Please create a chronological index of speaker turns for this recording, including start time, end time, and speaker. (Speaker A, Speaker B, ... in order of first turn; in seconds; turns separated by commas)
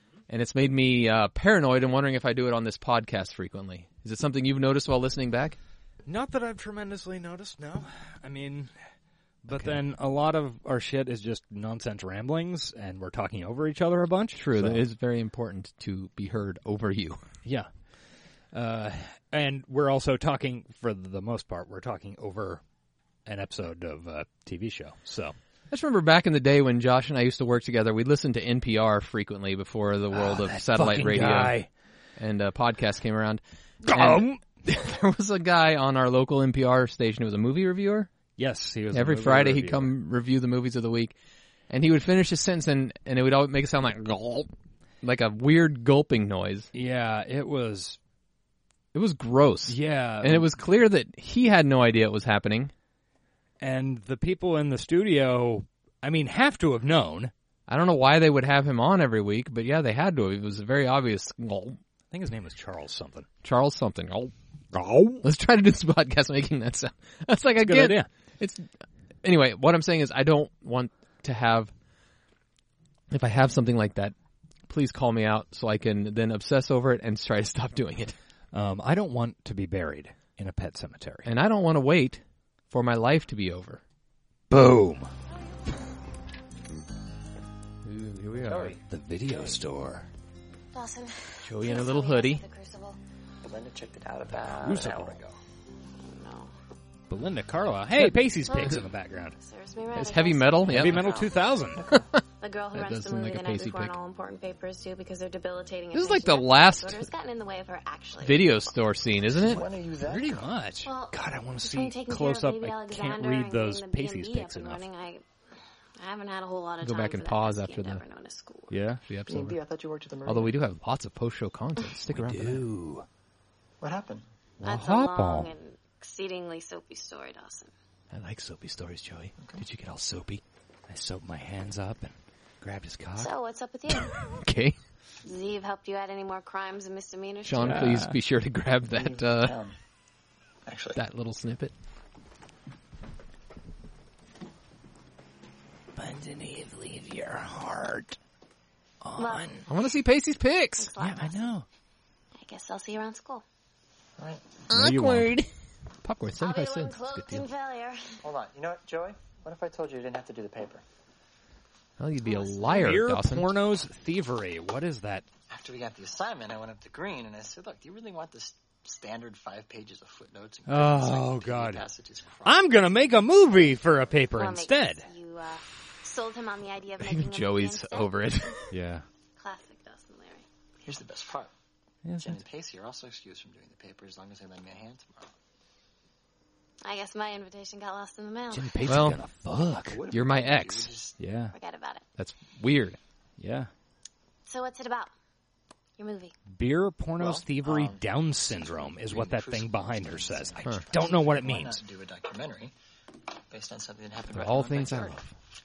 Speaker A: 0.3-5.6, Speaker B: 6.1-8.8, Speaker B: 9.4-14.8, Speaker A: 9.5-9.8, Speaker A: 14.3-17.2, Speaker B: 17.4-17.9, Speaker B: 18.5-22.6, Speaker B: 23.2-25.4, Speaker A: 25.7-31.6, Speaker B: 30.1-31.7, Speaker A: 32.2-38.1, Speaker B: 33.9-34.4, Speaker B: 38.4-39.9, Speaker A: 38.9-41.2, Speaker A: 41.7-44.5, Speaker A: 45.0-46.7, Speaker B: 46.7-48.0, Speaker A: 48.9-52.7, Speaker B: 49.7-50.5, Speaker B: 53.6-57.3, Speaker A: 57.7-61.8, Speaker B: 62.1-63.3, Speaker A: 63.4-64.3, Speaker B: 64.7-65.2, Speaker A: 65.2-68.7, Speaker B: 67.6-68.1, Speaker A: 69.2-71.7, Speaker A: 73.1-74.1, Speaker A: 74.7-78.2, Speaker B: 78.5-81.3, Speaker A: 81.2-83.8, Speaker B: 84.5-85.1, Speaker A: 87.8-88.8, Speaker B: 88.5-90.1, Speaker C: 90.7-93.0, Speaker A: 91.4-92.4, Speaker D: 93.4-95.3, Speaker B: 94.5-95.2, Speaker C: 95.9-96.5, Speaker B: 97.1-99.4, Speaker C: 98.5-98.8, Speaker C: 99.4-101.6, Speaker A: 99.9-101.1, Speaker B: 100.7-101.9, Speaker A: 101.9-102.2, Speaker C: 102.4-108.8, Speaker A: 102.7-104.0, Speaker A: 105.9-107.1, Speaker A: 108.2-109.6, Speaker D: 109.4-110.5, Speaker B: 109.5-114.8, Speaker C: 110.8-115.2, Speaker C: 116.0-118.8, Speaker A: 116.8-118.0, Speaker B: 118.7-119.0, Speaker A: 119.1-119.6, Speaker D: 119.3-120.6, Speaker A: 120.2-122.7, Speaker B: 122.1-123.1, Speaker D: 123.8-124.2, Speaker B: 124.6-125.5, Speaker C: 124.6-127.7, Speaker A: 128.1-130.4, Speaker B: 130.9-133.3, Speaker C: 133.2-134.2, Speaker A: 134.4-134.8, Speaker C: 135.2-137.9, Speaker A: 137.4-139.6, Speaker B: 137.6-138.2, Speaker D: 138.9-139.8, Speaker D: 140.7-141.0, Speaker A: 141.0-141.7, Speaker B: 146.0-148.2, Speaker B: 149.0-149.7, Speaker C: 149.2-149.7, Speaker A: 149.7-150.9, Speaker C: 150.8-151.6, Speaker B: 151.0-151.7, Speaker C: 152.4-153.4, Speaker D: 154.2-154.5, Speaker A: 154.7-155.5, Speaker B: 154.7-155.3, Speaker A: 156.0-157.5, Speaker C: 156.4-158.2, Speaker D: 158.2-160.8, Speaker A: 162.0-163.5, Speaker C: 162.2-162.6, Speaker B: 162.7-165.3, Speaker D: 165.5-172.9, Speaker B: 170.7-171.8, Speaker B: 172.4-175.1, Speaker C: 174.3-178.6, Speaker A: 177.0-178.7, Speaker B: 178.7-179.1, Speaker C: 179.4-180.5, Speaker D: 180.8-181.5, Speaker B: 182.0-182.4, Speaker D: 182.2-185.3, Speaker C: 186.8-189.0, Speaker B: 188.5-190.0, Speaker A: 188.9-189.2, Speaker D: 189.9-191.2, Speaker A: 190.1-190.9, Speaker B: 191.2-191.6, Speaker C: 191.5-192.0, Speaker A: 192.2-193.0, Speaker B: 193.4-193.7, Speaker C: 194.5-195.1, Speaker C: 196.0-196.4, Speaker B: 196.5-201.8, Speaker D: 197.2-202.7, Speaker D: 203.5-205.2, Speaker A: 204.3-205.3